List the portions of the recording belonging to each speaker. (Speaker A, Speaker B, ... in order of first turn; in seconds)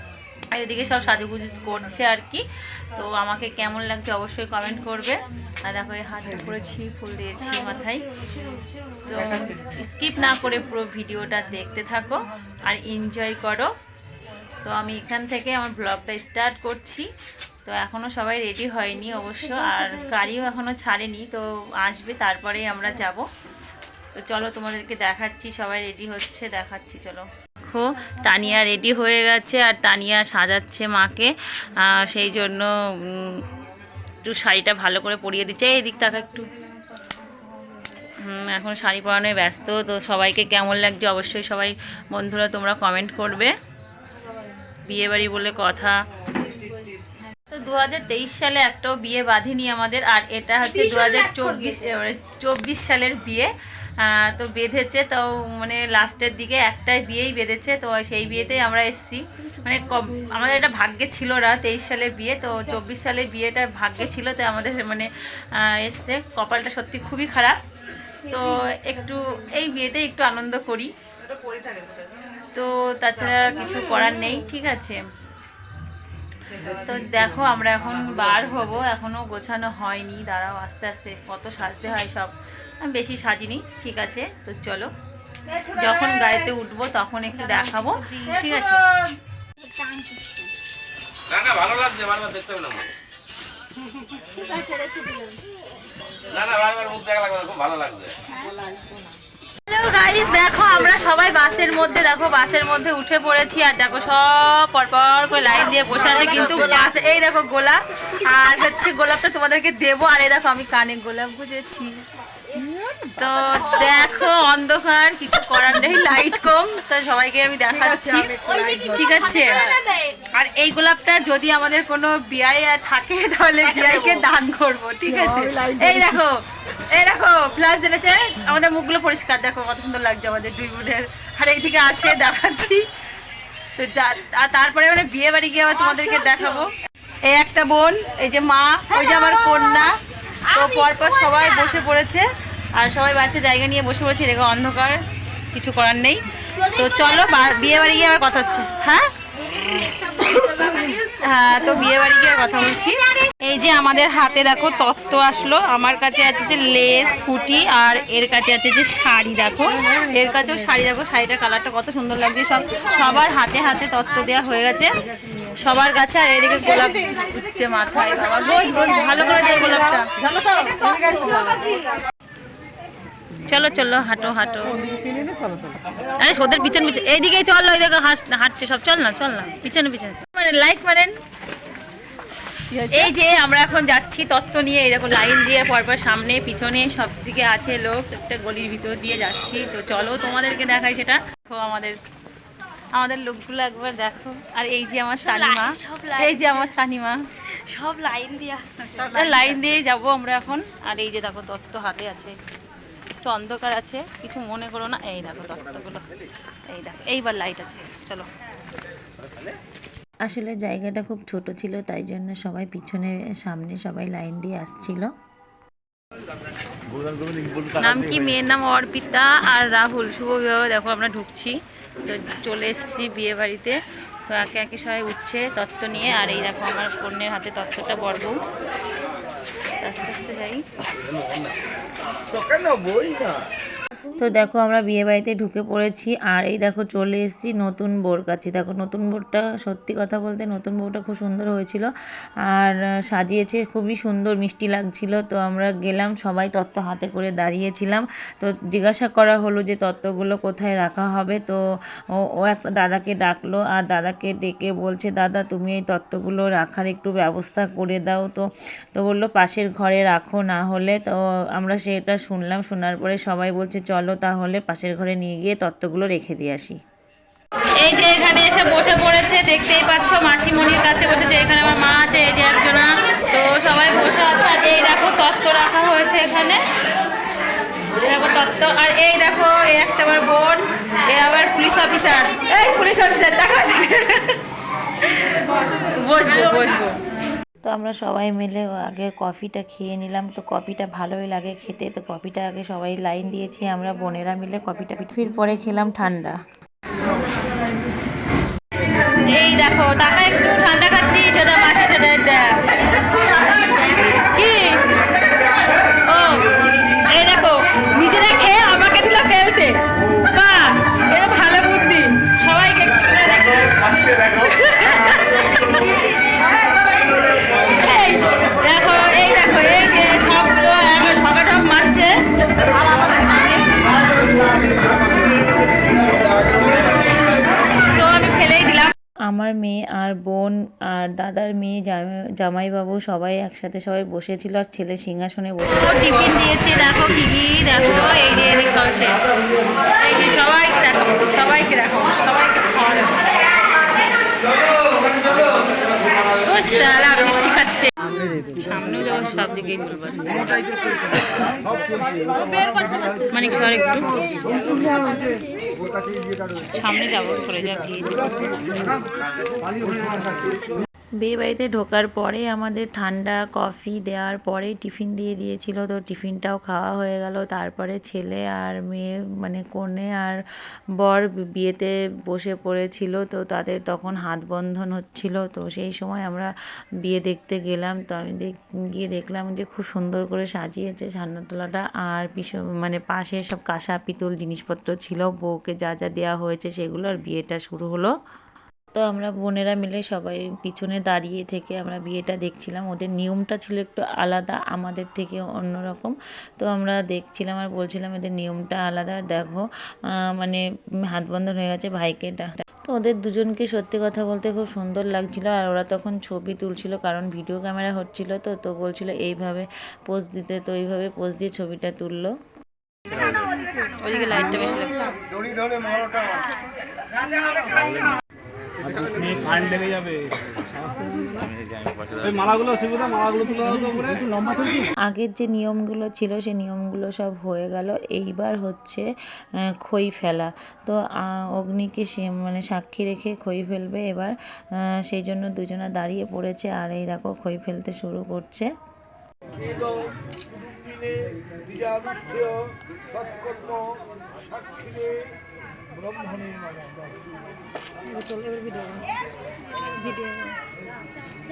Speaker A: 0.5-2.4, 3.0-8.0, 9.1-13.7, 14.6-17.1, 17.7-23.2, 24.2-33.4, 34.2-36.5, 38.2-43.5, 44.8-46.0, 47.5-53.5, 54.0-67.6, 68.3-70.9, 72.5-75.0, 76.5-84.9, 85.6-88.8, 99.7-112.0, 113.1-119.6, 120.2-132.8, 133.8-136.7, 137.3-139.9, 140.5-142.2, 142.8-145.0, 145.5-149.1, 150.2-164.9, 165.6-170.1, 173.4-174.8, 176.2-181.2, 182.8-192.0, 193.0-197.2, 199.0-202.3, 203.2-206.1, 206.7-208.3, 217.8-228.4, 229.8-230.6, 267.8-276.6, 278.0-284.4, 285.7-287.0, 299.1-304.8, 306.1-306.5, 307.0-315.8, 317.7-323.9, 327.8-328.9, 335.7-339.1, 340.0-343.2, 346.4-347.9, 348.6-350.5, 353.3-354.2, 356.7-358.2, 413.9-415.1
Speaker B: 89.8-90.3, 94.4-95.3, 118.3-119.9, 147.4-147.9, 149.5-151.0, 170.4-171.8, 195.2-196.3, 197.7-199.2, 352.4-353.2, 354.2-355.5, 448.2-449.0, 450.0-450.4
Speaker C: 91.3-92.9, 96.3-98.1, 175.0-175.8, 216.9-217.9, 232.3-233.4, 417.6-418.1, 418.8-420.3, 421.0-424.9
Speaker D: 210.2-215.1, 234.2-241.9, 242.5-251.6, 252.2-266.8, 287.6-296.4, 329.3-336.0, 361.2-370.4, 371.0-376.5, 377.0-388.1, 388.9-399.6, 400.3-412.3, 425.1-429.1, 429.6-438.7